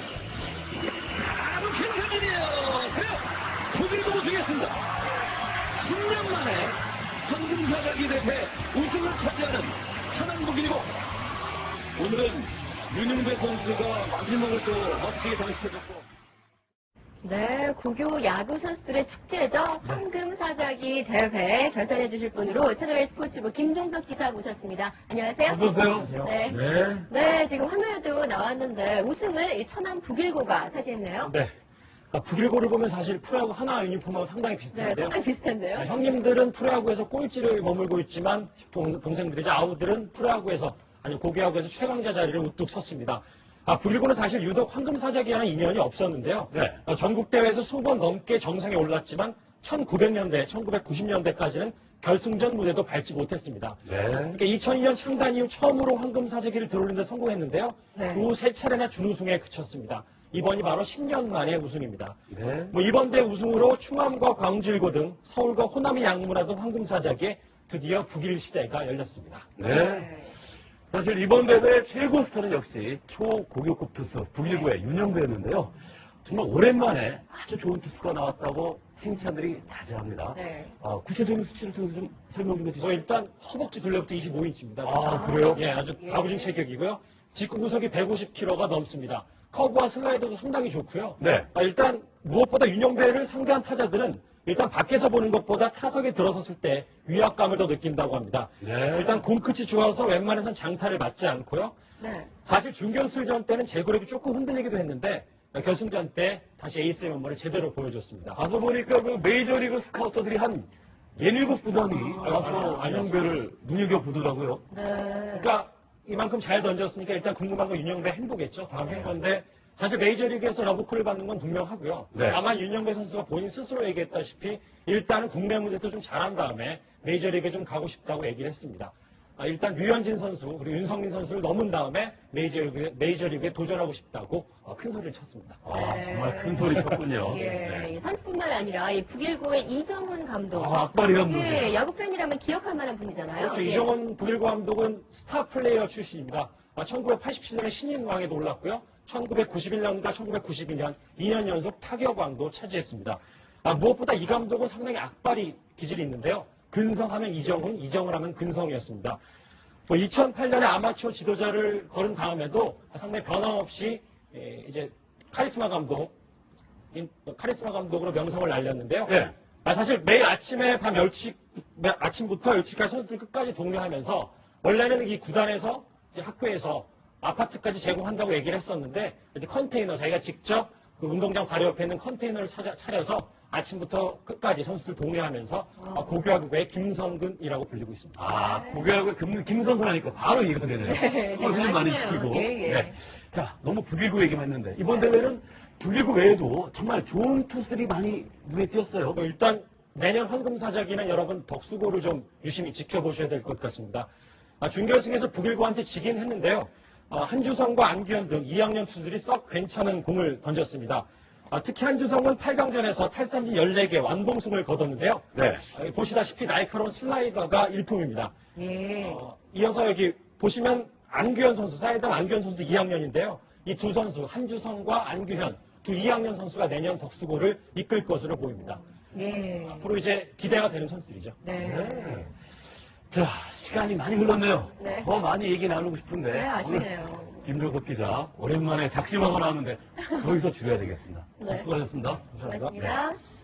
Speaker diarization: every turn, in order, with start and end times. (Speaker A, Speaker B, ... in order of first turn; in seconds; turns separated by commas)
Speaker A: 1.2-4.8, Speaker A: 5.8-11.0, Speaker A: 12.0-16.1, Speaker B: 17.2-25.7, Speaker A: 25.4-27.1, Speaker C: 25.8-26.3, Speaker B: 26.2-31.3, Speaker C: 31.2-31.5, Speaker C: 32.1-35.2, Speaker B: 34.7-36.1, Speaker C: 35.8-62.2, Speaker A: 46.5-46.8, Speaker A: 53.9-54.4, Speaker B: 58.0-58.3, Speaker A: 62.3-62.7, Speaker C: 62.7-69.5, Speaker A: 69.6-70.1, Speaker B: 69.7-70.3, Speaker A: 70.9-83.0, Speaker B: 74.4-74.7, Speaker B: 80.3-80.7, Speaker C: 82.8-101.8, Speaker A: 84.8-85.7, Speaker B: 85.0-86.5, Speaker A: 91.2-91.5, Speaker A: 98.6-99.2, Speaker B: 102.0-102.3, Speaker C: 102.4-108.4, Speaker A: 108.3-114.6, Speaker B: 111.9-112.8, Speaker C: 112.2-113.4, Speaker B: 114.7-115.5, Speaker C: 115.3-135.6, Speaker A: 122.1-122.4, Speaker A: 135.6-137.9, Speaker B: 135.7-143.9, Speaker C: 136.7-137.0, Speaker A: 140.5-141.7, Speaker C: 143.4-159.2, Speaker C: 159.9-166.1, Speaker C: 166.9-188.2, Speaker A: 169.1-169.3, Speaker B: 185.8-186.1, Speaker A: 188.2-199.2, Speaker B: 188.3-188.9, Speaker B: 190.8-192.9, Speaker C: 199.1-204.1, Speaker C: 204.6-218.3, Speaker A: 215.3-215.7, Speaker B: 218.6-219.2, Speaker C: 219.0-228.8, Speaker B: 229.1-229.9, Speaker C: 229.7-231.4, Speaker B: 231.4-232.3, Speaker A: 231.6-232.3, Speaker A: 233.1-243.0, Speaker B: 234.8-235.1, Speaker B: 236.3-237.4, Speaker B: 241.4-241.7, Speaker C: 242.4-242.7, Speaker B: 242.4-243.2